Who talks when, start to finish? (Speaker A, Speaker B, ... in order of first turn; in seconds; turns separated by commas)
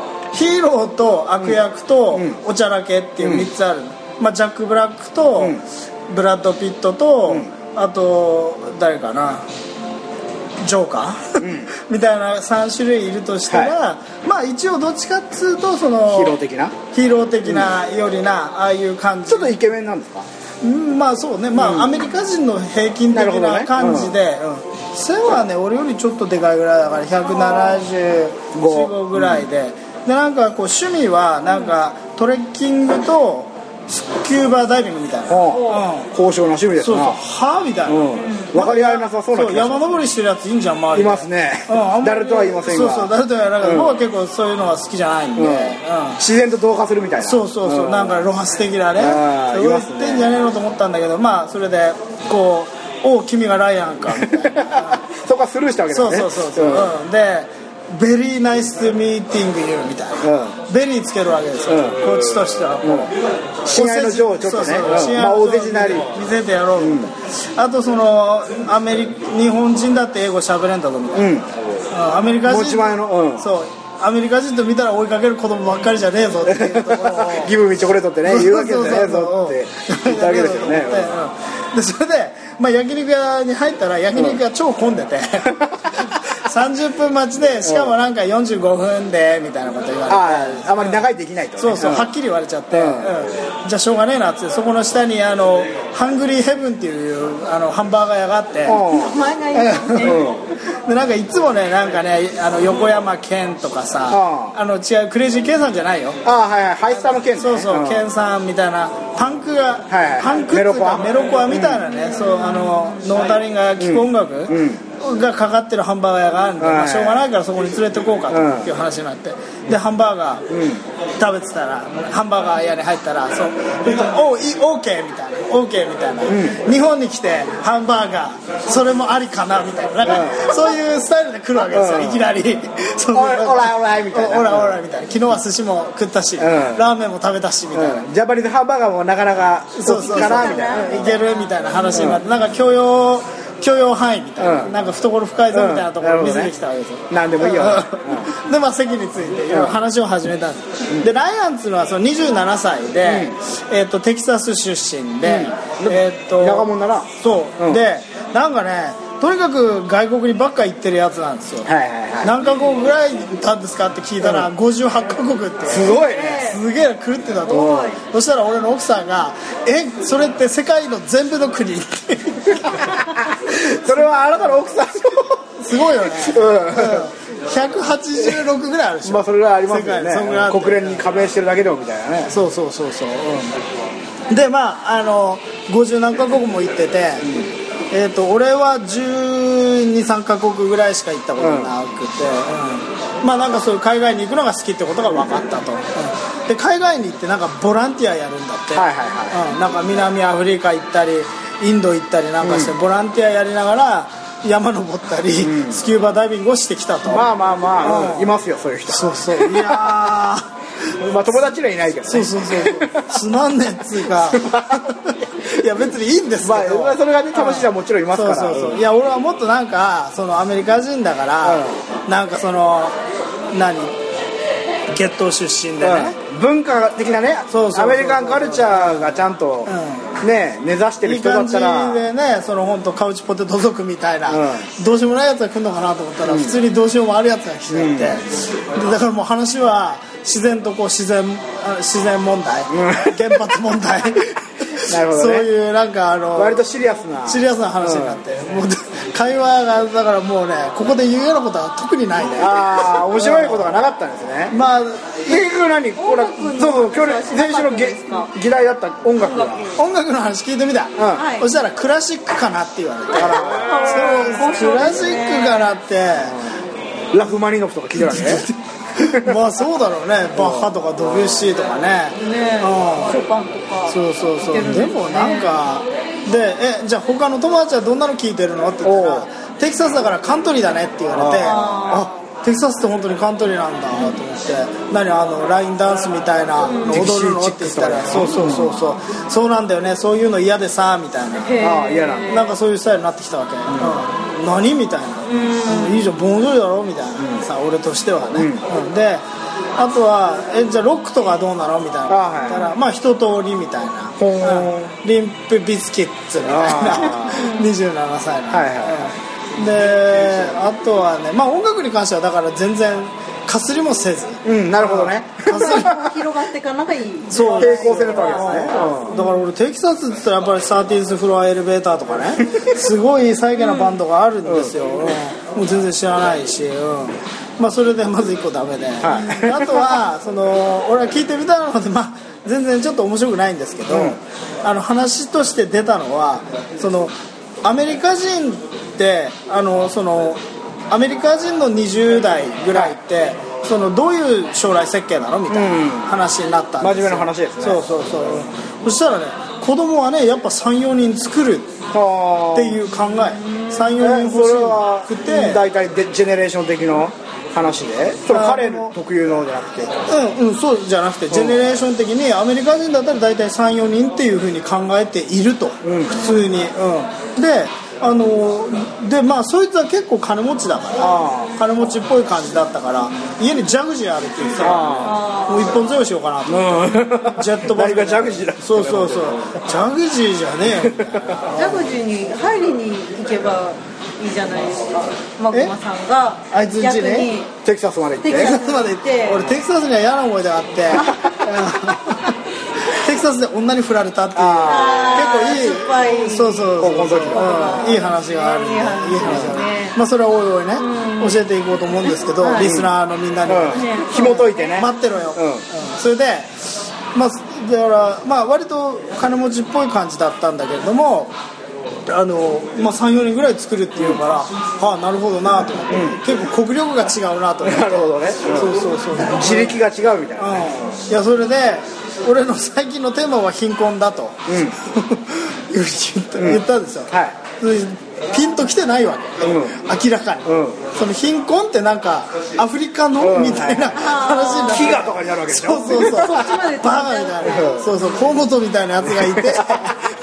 Speaker A: 0.3-9.4, Speaker B: 3.2-3.5, Speaker A: 10.6-16.3, Speaker B: 11.4-11.7, Speaker B: 13.5-13.7, Speaker B: 16.1-16.8, Speaker A: 16.9-19.6, Speaker B: 17.4-17.7, Speaker B: 19.3-20.3, Speaker A: 20.6-36.1, Speaker B: 21.5-22.1, Speaker B: 23.1-24.1, Speaker B: 28.5-29.4, Speaker B: 35.3-37.2, Speaker C: 35.5-35.8, Speaker A: 36.8-38.0, Speaker B: 37.9-40.0, Speaker C: 38.1-38.5, Speaker A: 38.5-46.2, Speaker B: 40.9-44.0, Speaker B: 45.4-48.2, Speaker A: 47.2-55.0, Speaker B: 49.0-50.3, Speaker B: 54.1-56.9, Speaker A: 55.9-63.1, Speaker B: 60.2-60.5, Speaker B: 61.7-62.1, Speaker B: 62.8-63.1, Speaker A: 63.6-71.3, Speaker B: 63.7-66.1, Speaker B: 66.8-67.1, Speaker B: 71.1-71.5, Speaker A: 71.9-77.5, Speaker B: 72.4-73.5, Speaker B: 76.5-81.2, Speaker A: 78.2-91.0, Speaker B: 84.1-84.4, Speaker B: 87.6-87.9, Speaker B: 90.1-92.1, Speaker A: 91.6-98.8, Speaker B: 92.7-93.3, Speaker B: 98.6-99.2, Speaker C: 98.8-100.2, Speaker A: 99.5-106.2, Speaker B: 100.0-100.4, Speaker B: 104.1-104.5, Speaker B: 106.2-108.0, Speaker A: 107.3-120.5, Speaker B: 109.9-111.8, Speaker C: 111.9-113.0, Speaker B: 113.8-114.8, Speaker B: 116.6-117.2, Speaker B: 118.3-118.7, Speaker B: 120.5-120.8, Speaker A: 121.2-138.1, Speaker B: 126.3-126.6, Speaker B: 130.0-130.5, Speaker B: 131.7-132.2, Speaker B: 133.1-134.8, Speaker B: 136.4-136.8, Speaker B: 137.7-141.2, Speaker A: 139.8-161.7, Speaker C: 139.9-142.1, Speaker B: 141.9-142.2, Speaker B: 144.4-144.7, Speaker B: 145.5-146.5, Speaker B: 147.1-148.3, Speaker B: 149.5-149.8, Speaker B: 153.0-153.3, Speaker B: 155.2-157.8, Speaker B: 161.6-162.3, Speaker A: 162.2-173.2, Speaker B: 164.2-164.5, Speaker B: 165.7-166.5, Speaker C: 165.9-166.6, Speaker C: 167.4-168.0, Speaker B: 172.7-175.4, Speaker A: 175.6-181.0, Speaker B: 176.0-177.1, Speaker B: 179.0-182.3, Speaker A: 182.3-183.6, Speaker A: 184.3-187.3, Speaker A: 187.9-207.3, Speaker B: 191.4-191.7, Speaker B: 198.8-199.4, Speaker B: 202.4-202.7, Speaker B: 205.4-205.8, Speaker B: 207.1-210.1, Speaker A: 207.8-208.3, Speaker A: 208.9-210.5, Speaker B: 211.0-213.2, Speaker A: 212.1-223.0, Speaker B: 214.1-214.9, Speaker B: 216.4-218.8, Speaker B: 221.4-221.8, Speaker A: 223.5-223.9, Speaker A: 224.9-226.2, Speaker B: 225.8-232.1, Speaker A: 227.5-230.1, Speaker A: 231.0-246.6, Speaker B: 234.3-234.7, Speaker B: 236.2-236.6, Speaker B: 237.7-238.2, Speaker B: 242.7-243.5, Speaker B: 244.8-245.5, Speaker B: 246.3-248.2, Speaker A: 247.2-253.7, Speaker B: 252.3-254.5, Speaker A: 254.5-255.4, Speaker B: 255.2-259.7, Speaker C: 256.0-258.3, Speaker C: 259.2-259.7, Speaker A: 259.8-266.4, Speaker B: 260.9-261.3, Speaker C: 261.1-261.5, Speaker B: 263.1-264.1, Speaker C: 263.1-265.7, Speaker B: 267.1-268.4, Speaker A: 267.9-273.1, Speaker B: 269.0-269.4, Speaker B: 270.3-271.3, Speaker C: 272.2-275.6, Speaker A: 273.9-291.6, Speaker B: 278.8-279.2, Speaker B: 281.1-282.1, Speaker C: 281.4-282.1, Speaker B: 283.9-284.2, Speaker C: 286.6-287.0, Speaker B: 286.9-288.8, Speaker C: 291.4-292.5, Speaker B: 291.6-292.4, Speaker A: 292.3-299.2, Speaker B: 293.7-294.0, Speaker C: 295.2-296.1, Speaker B: 298.3-298.6, Speaker A: 299.8-316.0, Speaker B: 302.1-302.6, Speaker B: 304.2-304.9, Speaker B: 306.4-307.4, Speaker C: 307.3-307.7, Speaker B: 308.5-309.1, Speaker B: 314.4-316.1, Speaker C: 315.5-319.4, Speaker A: 317.3-351.7, Speaker B: 317.6-319.2, Speaker B: 322.4-322.7, Speaker C: 323.6-324.0, Speaker B: 324.4-324.8, Speaker B: 329.0-329.9, Speaker B: 333.9-334.2, Speaker B: 345.5-346.1, Speaker B: 346.8-347.8, Speaker B: 351.9-352.8, Speaker A: 352.5-355.6, Speaker C: 353.4-353.9, Speaker B: 354.0-359.9, Speaker A: 358.3-358.9, Speaker A: 360.1-381.9, Speaker B: 361.3-361.7, Speaker B: 365.8-366.1, Speaker C: 366.1-366.4, Speaker B: 371.0-371.5, Speaker B: 374.6-375.2, Speaker C: 375.0-375.8, Speaker B: 376.5-379.7, Speaker B: 380.7-381.4, Speaker C: 381.5-387.5, Speaker A: 386.5-387.3, Speaker B: 387.6-388.6, Speaker C: 388.2-389.5, Speaker A: 388.4-411.3, Speaker B: 390.9-391.4, Speaker B: 394.3-395.5, Speaker C: 394.6-399.9, Speaker B: 396.8-398.0, Speaker B: 399.2-399.6, Speaker C: 400.8-401.4, Speaker C: 402.3-402.7, Speaker B: 402.6-402.9, Speaker B: 403.4-405.6, Speaker C: 403.7-404.8, Speaker A: 412.1-419.8, Speaker B: 413.9-414.2, Speaker B: 415.9-416.2, Speaker B: 417.6-421.0, Speaker A: 420.4-440.0, Speaker B: 424.5-424.8, Speaker B: 426.4-427.4, Speaker B: 429.4-429.8, Speaker B: 430.4-430.8, Speaker B: 433.2-436.5, Speaker C: 433.9-435.1, Speaker C: 435.9-437.8, Speaker B: 437.4-437.9, Speaker B: 439.0-439.9